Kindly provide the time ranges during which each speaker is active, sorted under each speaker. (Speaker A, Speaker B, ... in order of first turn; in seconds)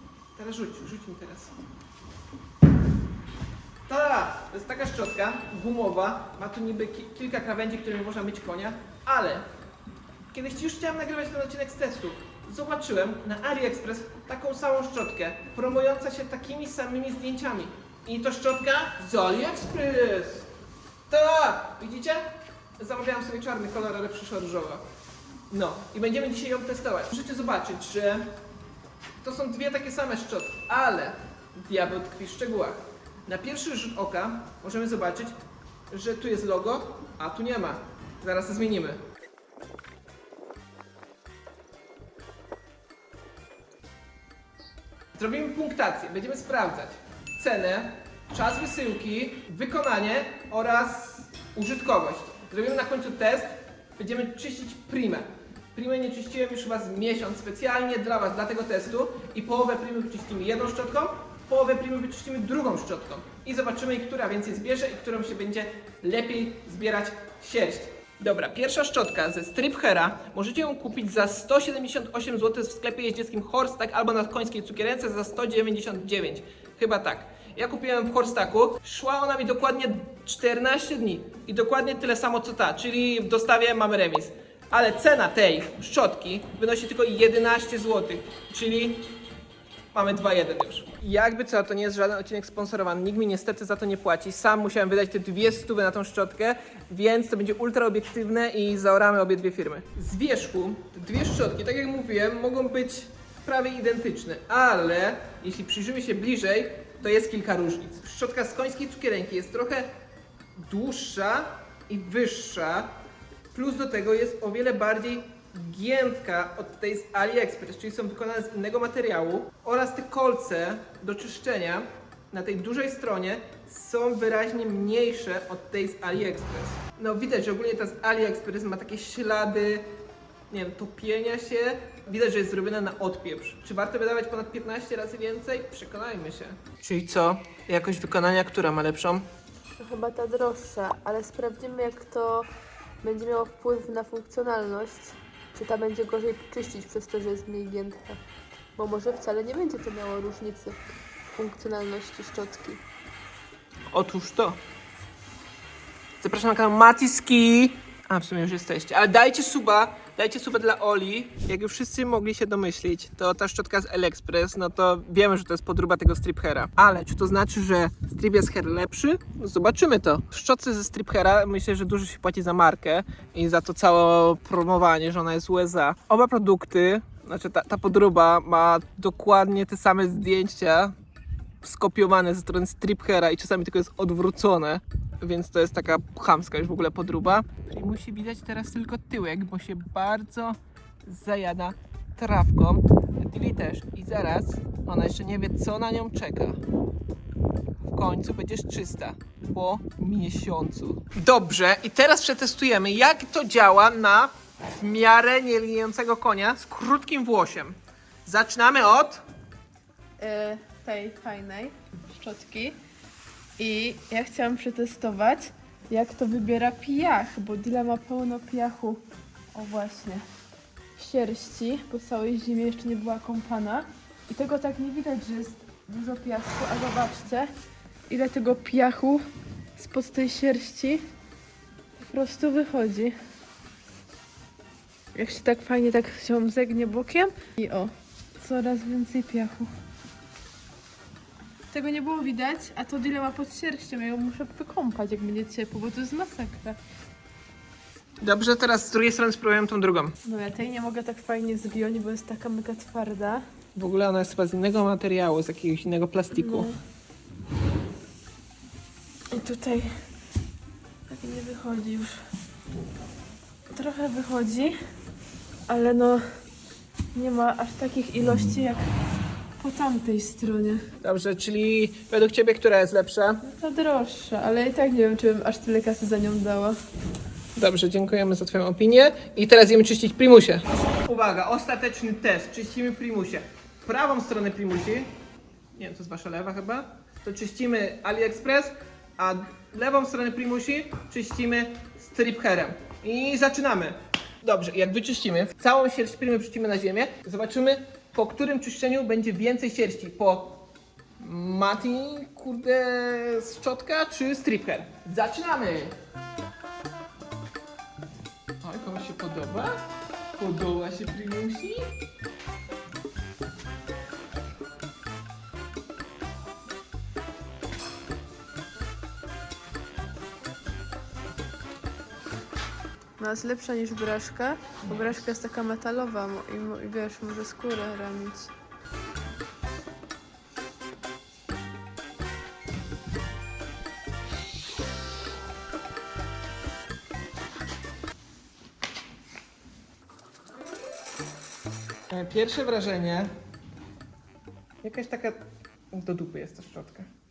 Speaker A: 0.3-1.5, 3.9-9.4, 10.3-20.5, 21.1-22.2, 22.8-24.8, 25.5-28.3, 29.2-35.4, 35.9-39.0, 45.1-89.1, 89.9-109.9, 110.5-112.9, 113.5-129.9, 130.5-139.2, 153.9-154.6, 156.2-180.9, 181.6-196.6, 197.8-209.2, 248.2-250.2, 253.7-256.7, 271.0-273.4, 277.6-285.1, 285.7-300.6, 301.2-305.9, 308.6-309.8, 310.3-311.9, 342.1-343.3, 344.8-345.4, 345.9-347.1
Speaker B: 139.8-142.5, 143.0-148.2, 148.8-150.8, 151.3-152.8, 210.2-212.8, 213.6-220.2, 221.0-227.5, 228.1-229.2, 229.8-231.0, 232.0-233.1, 235.1-239.7, 241.7-246.8, 250.2-253.4, 256.4-256.8, 259.3-260.0, 261.1-262.2, 263.7-264.7, 265.7-266.2, 267.1-268.8, 269.6-270.8, 273.4-276.8, 323.2-328.5